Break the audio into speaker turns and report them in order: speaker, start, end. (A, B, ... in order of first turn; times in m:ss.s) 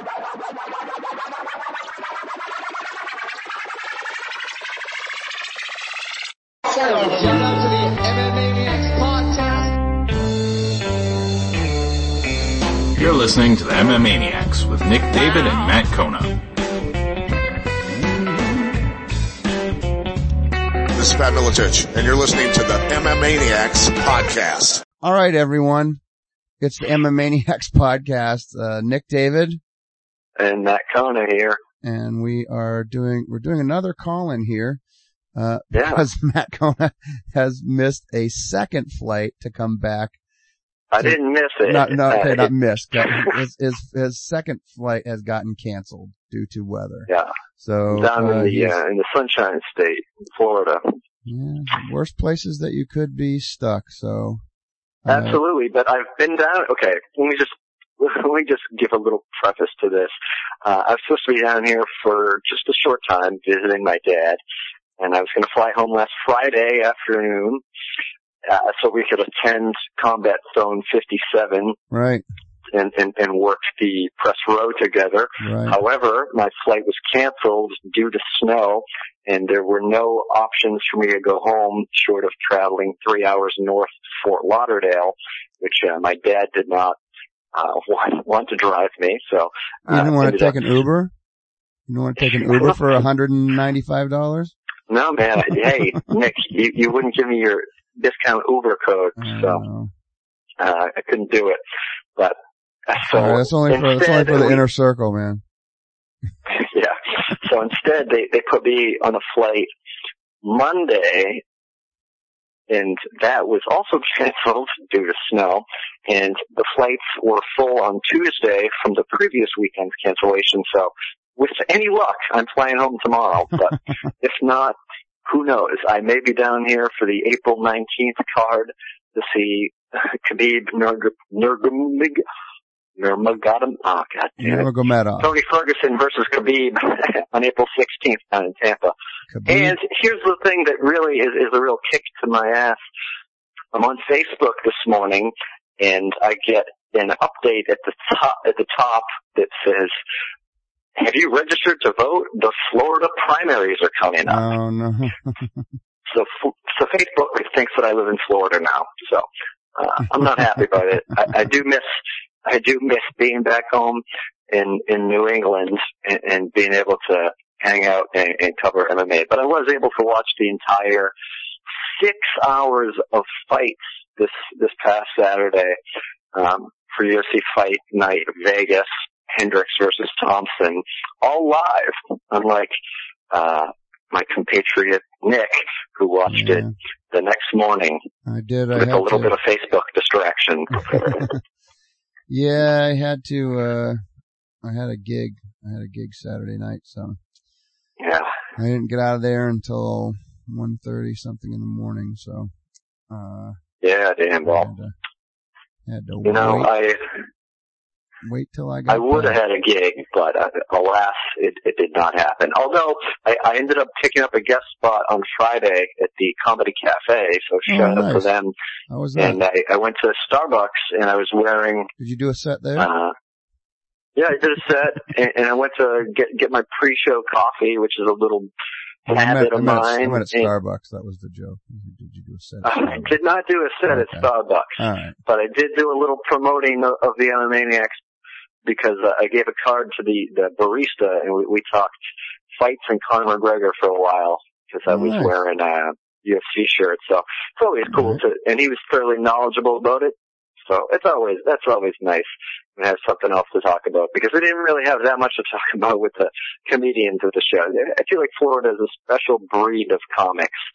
0:06.7-0:09.7 A
0:12.9-0:16.4 B
0:20.9-0:24.8 C
0:25.0-0:26.0 D
0:26.6-0:29.6 D
0:30.4-0:31.6 E
0:31.8-0:34.8 D
0:35.3-0:40.1 D
0:35.7-0:36.0 E
0:40.9-0:42.5 E
0:41.0-0:48.7 D
0:47.9-0:51.0 E
0:51.2-0:54.4 D
0:55.0-0:55.4 D
0:55.1-1:00.1 E
1:00.6-1:04.4 E
1:05.0-1:07.6 E
1:08.4-1:11.8 E
1:11.9-1:12.2 D
1:12.7-1:27.0 E
1:15.4-1:15.8 D
1:27.5-1:30.6 E
1:29.9-1:31.1 D
1:31.9-1:34.5 D
1:34.9-1:39.6 E
1:39.2-1:39.9 D
1:40.6-1:41.6 E
1:42.2-1:44.6 E
1:43.1-1:45.4 D
1:46.5-1:49.7 E
1:50.4-1:51.4 E
1:52.7-2:12.2 E
2:13.0-2:14.7 E
2:14.4-2:15.3 D
2:15.2-2:18.9 E
2:19.3-2:19.8 D
2:19.5-2:22.8 E
2:23.7-2:29.9 E
2:31.0-2:34.4 E
2:34.3-2:35.6 D
2:36.1-2:41.9 E
2:42.4-2:51.1 E
2:51.9-2:55.7 E
2:56.3-3:02.7 E
3:03.3-3:08.0 E
3:06.3-3:06.7 D
3:08.2-3:09.3 D
3:08.7-3:11.3 E
3:10.9-3:11.2 D
3:12.3-3:14.0 D
3:14.6-3:17.2 D
3:18.0-3:18.3 E
3:18.6-3:22.5 D
3:23.1-3:23.6 D
3:23.8-3:24.7 E
3:24.4-3:24.9 D
3:25.8-3:26.7 D
3:26.2-3:27.0 E
3:28.2-3:29.4 D
3:28.9-3:38.5 E
3:37.7-3:38.3 D
3:38.9-3:39.4 D
3:39.2-3:41.9 E
3:42.0-3:42.9 D
3:42.8-3:43.1 E
3:44.2-3:48.5 E
3:49.0-3:53.1 D
3:49.1-3:50.5 E
3:52.6-3:57.9 E
3:53.9-3:54.3 D
3:54.8-3:55.1 D
3:58.6-4:01.9 E
4:02.6-4:10.2 E
4:04.9-4:05.3 D
4:07.9-4:08.2 D
4:10.7-4:20.5 E